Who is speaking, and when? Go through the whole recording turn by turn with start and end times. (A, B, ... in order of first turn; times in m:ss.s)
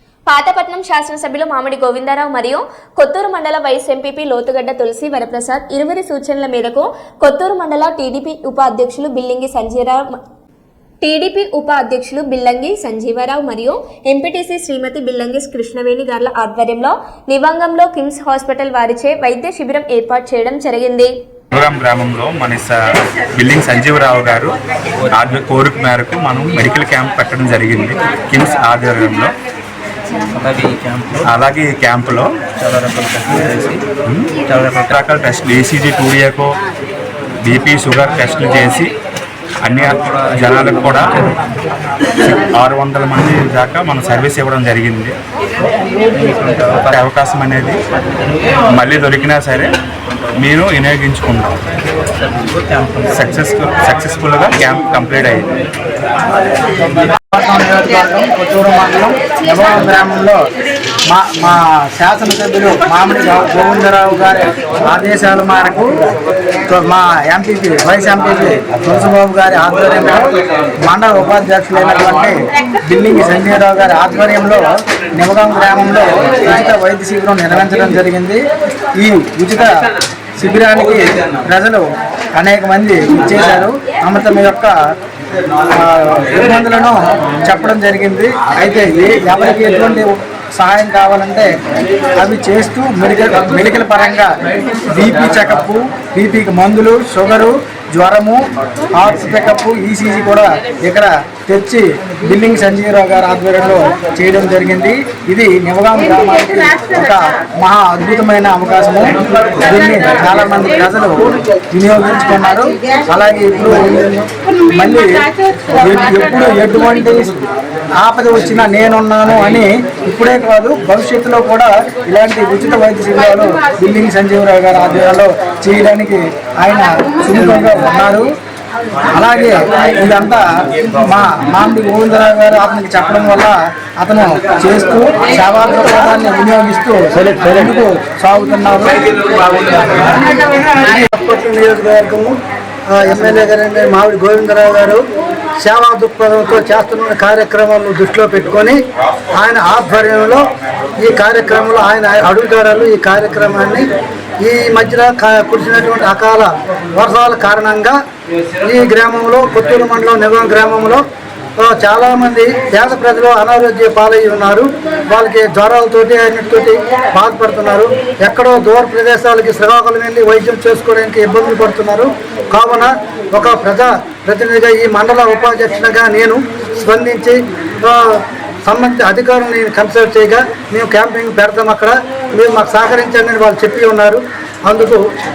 0:00.3-0:10.1 A
0:11.0-0:21.1 A
0:21.5-0:22.8 B
0:23.3-0:24.5 B
0:25.1-0:29.3 B
0:30.4-0:31.2 C
0:31.3-0:32.3 B
0:32.6-0:33.8 C
0:34.1-0:36.5 B
0:37.4-0:38.9 B
0:39.6-0:41.2 B
0:42.2-0:45.2 B
0:46.2-0:46.9 C
0:46.9-0:47.8 B
0:48.7-0:49.7 B
0:50.4-0:51.6 B
0:52.2-0:53.0 C
0:53.1-0:55.5 B
0:56.8-1:00.4 D
1:01.1-1:06.0 D
1:06.7-1:10.3 D
1:10.9-1:18.4 D
1:19.0-1:19.7 D
1:20.4-1:21.8 D
1:22.4-1:24.8 D
1:25.7-1:31.5 D
1:32.2-1:34.3 D
1:34.8-1:38.4 D
1:39.0-1:57.3 D
1:58.0-2:08.3 D
2:09.1-2:20.2 D
2:20.8-2:22.4 E
2:22.9-2:25.0 E
2:25.6-2:28.8 E
2:29.3-2:30.4 E
2:31.0-2:33.8 E
2:34.4-2:38.0 E
2:38.6-2:41.0 E
2:41.6-2:58.0 E
2:58.7-3:05.0 E